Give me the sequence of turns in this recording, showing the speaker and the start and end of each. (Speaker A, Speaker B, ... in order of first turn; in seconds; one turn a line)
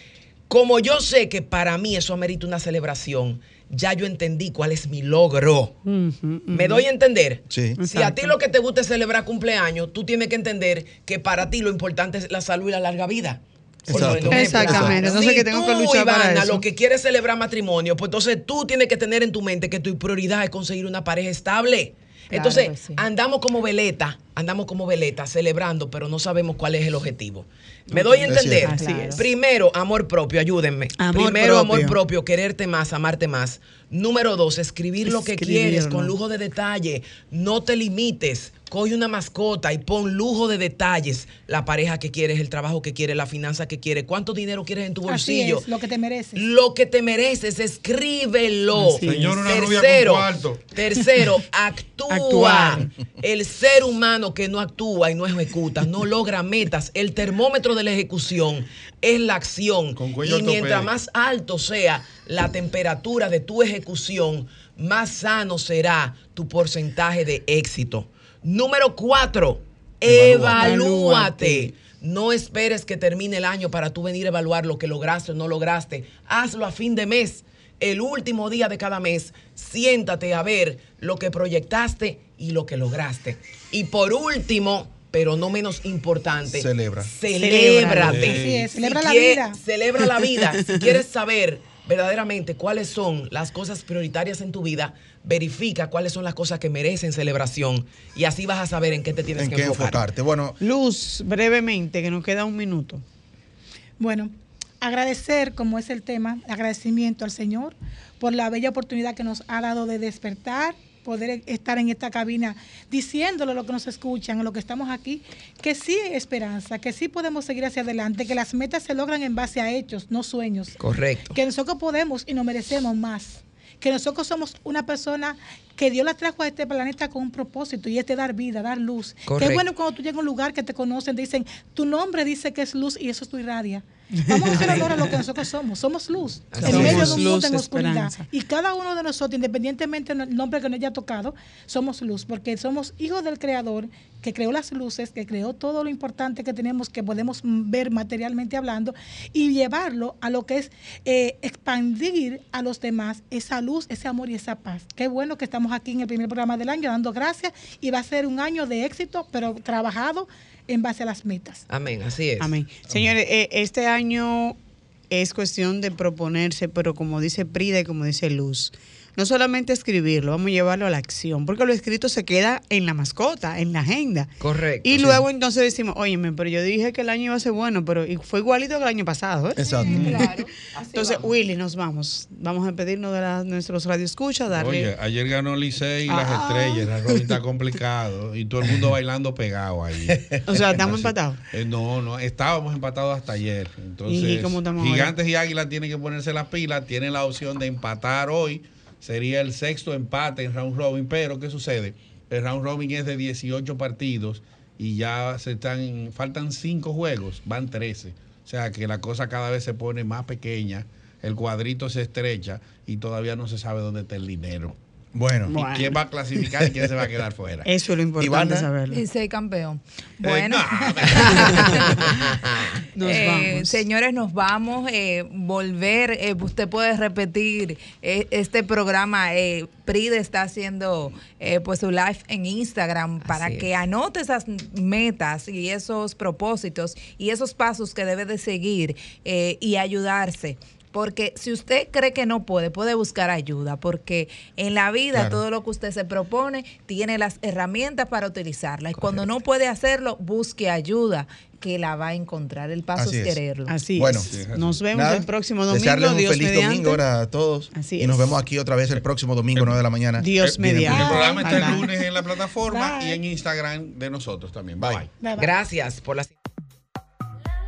Speaker A: 0.5-5.8
Speaker B: 5.8-6.9
Speaker A: 6.5-45.7
Speaker C: 7.5-7.8
Speaker B: 7.8-8.4
Speaker C: 13.9-15.0
Speaker B: 13.9-16.6
Speaker D: 22.3-23.0
Speaker B: 27.9-29.3
Speaker C: 28.3-28.7
Speaker D: 28.7-29.3
Speaker B: 31.0-32.0
Speaker B: 35.1-36.1
Speaker E: 45.1-46.4
Speaker A: 46.4-100.0
Speaker B: 48.7-49.3
Speaker F: 49.0-50.7
Speaker B: 52.1-52.9
Speaker F: 60.0-60.9
Speaker F: 70.1-70.4
Speaker B: 70.5-71.7
Speaker C: 86.5-87.1
Speaker B: 87.3-88.3
Speaker F: 87.9-88.7
Speaker E: 88.3-89.6
Speaker B: 90.4-90.9
Speaker C: 99.4-100.6
Speaker B: 100.6-103.0
Speaker E: 104.0-120.8
Speaker A: 120.8-121.4
Speaker E: 121.3-161.7
Speaker A: 129.3-129.7
Speaker B: 134.1-135.2
Speaker A: 134.5-134.9
Speaker A: 136.5-137.3
Speaker B: 136.6-138.3
Speaker A: 161.7-162.6
Speaker B: 162.4-164.6
Speaker B: 165.1-174.3
Speaker A: 174.4-175.2
Speaker B: 174.8-180.3
Speaker C: 179.6-180.1
Speaker D: 179.8-181.2
Speaker F: 179.9-180.2
Speaker B: 180.9-184.9
Speaker F: 184.5-214.8
Speaker B: 186.1-187.3
Speaker B: 190.5-191.4
Speaker B: 194.1-195.1
Speaker C: 215.1-215.7
Speaker F: 215.5-217.7
Speaker B: 215.5-216.5
Speaker B: 217.7-219.0
Speaker C: 218.2-218.7
Speaker D: 218.9-221.9
Speaker F: 220.2-222.1
Speaker A: 221.3-222.8
Speaker B: 222.9-223.8
Speaker D: 223.0-253.8
Speaker A: 233.2-233.7
Speaker C: 245.1-245.4
Speaker C: 253.0-253.4
Speaker B: 253.7-257.0
Speaker C: 254.0-254.3
Speaker F: 254.2-254.9
Speaker C: 254.9-261.1
Speaker B: 257.7-258.4
Speaker B: 260.2-261.9
Speaker F: 260.4-265.1
Speaker E: 260.9-261.6
Speaker E: 262.7-263.2
Speaker E: 265.2-265.5
Speaker A: 265.4-266.3